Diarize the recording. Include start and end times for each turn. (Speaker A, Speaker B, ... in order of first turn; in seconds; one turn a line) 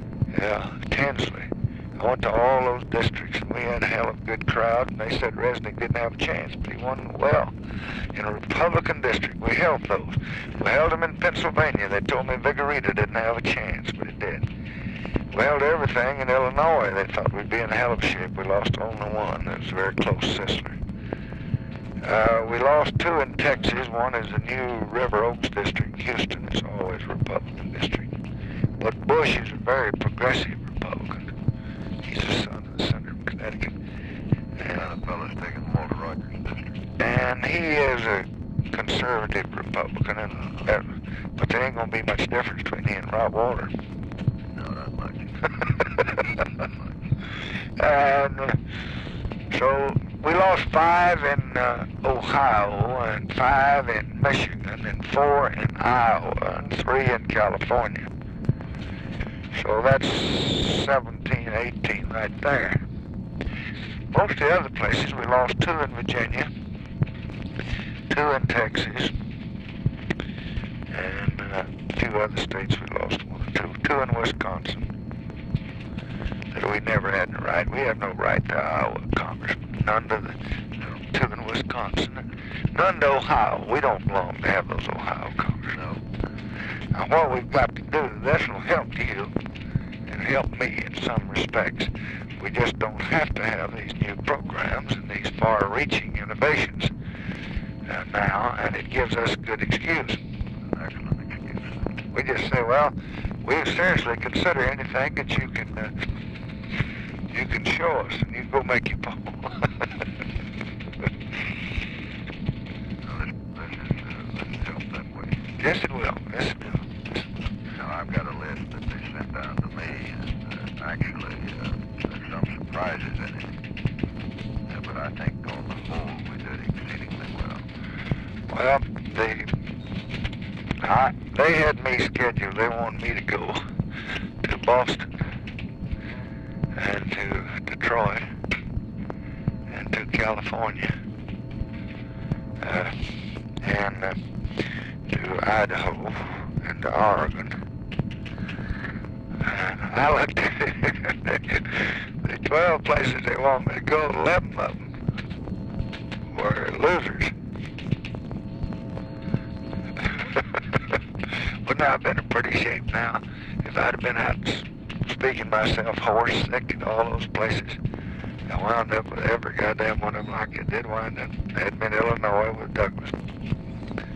Speaker A: 0.3-7.5
Speaker A: 8.1-14.4
Speaker A: 15.3-20.8
Speaker A: 22.0-28.1
Speaker A: 28.8-31.3
Speaker A: 32.0-33.8
Speaker A: 34.6-34.9
Speaker B: 34.7-36.8
Speaker A: 37.0-43.7
Speaker B: 44.5-47.0
Speaker A: 47.8-48.6
Speaker A: 49.5-58.1
Speaker A: 59.5-62.8
Speaker A: 64.1-66.5
Speaker A: 68.1-69.1
Speaker A: 70.9-74.9
Speaker A: 76.5-80.4
Speaker A: 81.1-85.8
Speaker B: 85.7-86.0
Speaker A: 86.9-89.3
Speaker A: 90.1-96.9
Speaker A: 97.9-100.2
Speaker B: 100.7-101.9
Speaker A: 102.1-105.9
Speaker A: 107.3-110.0
Speaker B: 113.0-115.4
Speaker A: 115.6-117.1
Speaker B: 117.8-123.6
Speaker B: 124.7-127.7
Speaker A: 128.5-129.5
Speaker A: 130.8-133.6
Speaker A: 134.4-135.1
Speaker A: 136.8-138.3
Speaker A: 139.7-140.9
Speaker A: 142.6-144.2
Speaker A: 145.1-147.6
Speaker A: 149.4-154.9
Speaker A: 156.3-157.3
Speaker A: 161.4-167.8
Speaker A: 168.5-173.2